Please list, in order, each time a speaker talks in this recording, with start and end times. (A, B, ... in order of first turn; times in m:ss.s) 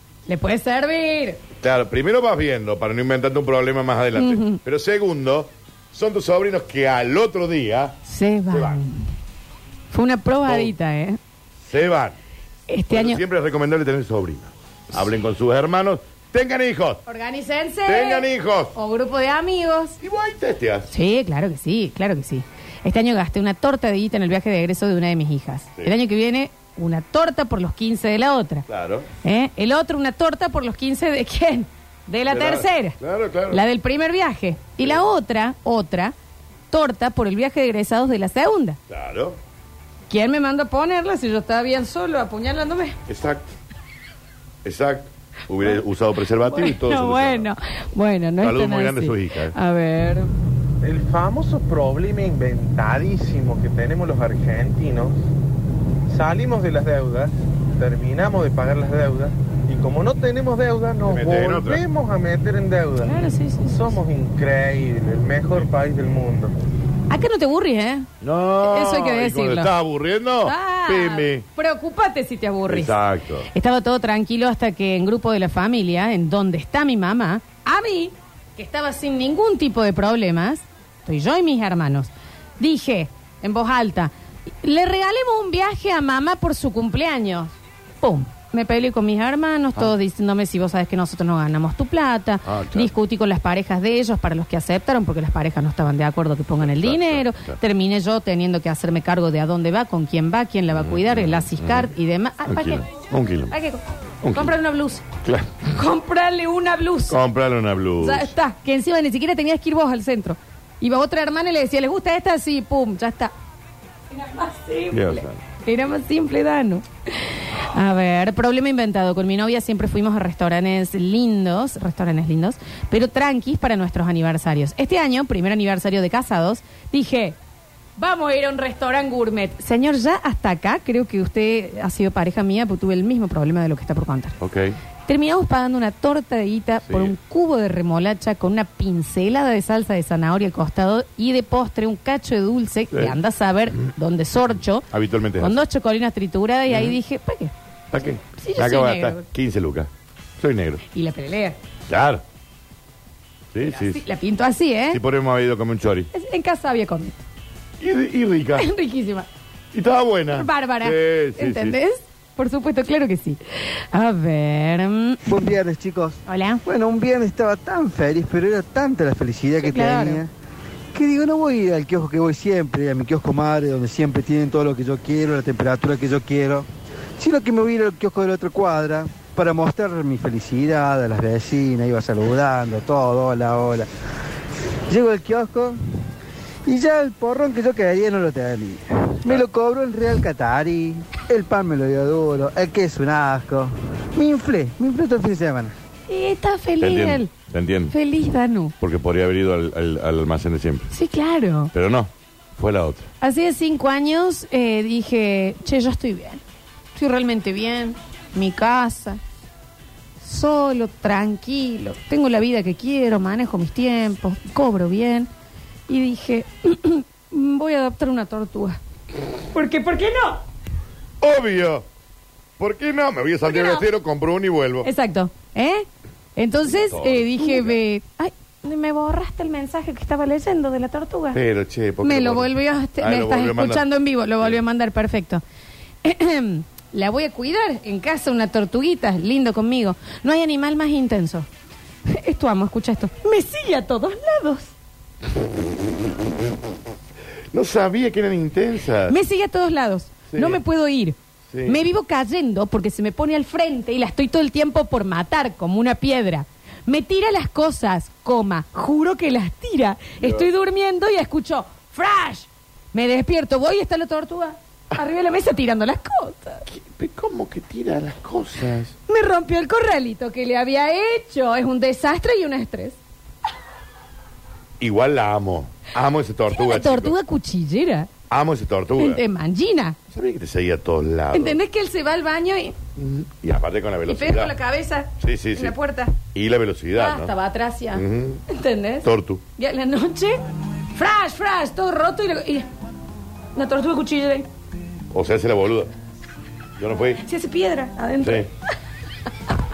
0:00.3-0:01.4 A
0:01.6-0:08.0 B
0:04.1-0:04.6 A
0:08.0-0:09.1 A
0:08.5-0:08.8 B
0:09.9-0:11.2 A
0:10.4-0:10.7 B
0:11.6-0:12.2 B
0:12.7-0:13.2 A
0:12.9-0:17.0 B
0:17.0-0:20.0 A
0:17.8-0:18.8 B
0:20.0-0:20.9 B
0:20.9-0:28.7 A
0:28.7-0:29.1 B
0:29.2-0:33.0 A
0:32.3-0:33.6 B
0:33.5-0:36.1 A
0:36.7-0:38.8 A
0:38.9-0:39.4 B
0:40.1-0:43.0 A
0:43.1-0:43.5 B
0:44.6-0:47.5 B
0:46.4-0:50.3 A
0:48.4-0:49.6 B
0:50.8-0:55.2 C
0:56.1-1:03.1 C
1:01.0-1:01.8 B
1:03.0-1:04.0 A
1:03.7-1:06.6 C
1:07.1-1:08.1 A
1:08.2-1:11.4 B
1:08.6-1:09.7 A
1:10.4-1:13.0 A
1:12.7-1:13.5 B
1:13.5-1:24.1 A
1:24.6-1:42.9 A
1:32.4-1:32.9 B
1:36.6-1:37.6 B
1:40.7-1:41.9 B
1:42.4-1:43.5 B
1:43.5-1:45.0 A
1:44.2-1:44.5 B
1:45.2-1:45.7 B
1:45.7-1:47.2 A
1:47.1-1:48.3 B
1:48.0-1:53.3 A
1:54.1-2:07.4 A
1:54.9-1:55.4 B
2:08.0-2:14.4 A
2:14.4-2:14.8 B
2:15.1-2:24.9 A
2:16.9-2:17.1 B
2:24.9-2:25.6 B
2:25.4-2:27.5 A
2:26.7-2:27.0 B
2:27.9-2:30.8 B
2:28.3-2:29.2 A
2:30.9-2:31.6 A
2:31.9-2:32.2 B
2:33.5-2:34.0 B
2:33.6-2:35.0 A
2:34.9-2:36.1 B
2:36.1-2:37.2 A
2:37.8-2:38.7 B
2:38.6-2:39.3 A
2:39.7-2:41.8 B
2:40.3-2:43.4 A
2:43.9-2:45.4 A
2:45.2-2:50.3 D
2:46.2-2:46.6 A
2:49.6-2:50.2 A
2:50.9-2:56.7 D
2:57.2-3:03.9 D
3:04.9-3:05.8 D
3:06.6-3:15.7 D
3:16.1-3:17.3 A
3:16.8-3:17.9 B
3:17.9-3:18.7 A
3:18.8-3:20.9 B
3:20.9-3:21.7 A
3:21.7-3:23.1 B
3:23.2-3:26.4 A
3:26.9-3:29.2 A
3:30.2-3:35.3 A
3:35.9-3:38.8 A
3:39.5-3:40.4 A
3:41.2-3:41.8 B
3:42.6-3:44.9 B
3:43.4-3:43.9 A
3:44.8-3:51.4 A
3:46.6-3:47.8 B
3:51.3-3:53.8 B
3:52.0-3:55.4 A
3:56.0-4:01.5 A
4:02.1-4:04.7 A
4:05.4-4:05.7 B
4:07.5-4:09.2 B
4:09.1-4:26.6 A
4:10.3-4:10.6 B
4:11.5-4:11.8 B
4:20.2-4:20.5 B
4:26.7-4:28.9 B
4:29.1-4:33.0 A
4:34.8-4:37.1 B
4:36.5-4:38.1 A
4:38.3-4:39.2 B
4:39.0-4:40.0 A
4:40.1-4:41.6 B
4:41.3-4:42.8 A
4:43.0-4:44.5 B
4:44.0-4:46.2 A
4:45.2-4:45.7 B
4:46.3-4:47.3 B
4:46.9-4:50.4 A
4:47.9-4:48.4 B
4:49.0-4:49.4 B
4:50.9-4:52.7 A
4:53.5-4:54.5 A
4:55.1-4:55.9 B
4:56.8-4:57.2 B
4:57.2-4:58.5 A
4:58.2-4:58.5 B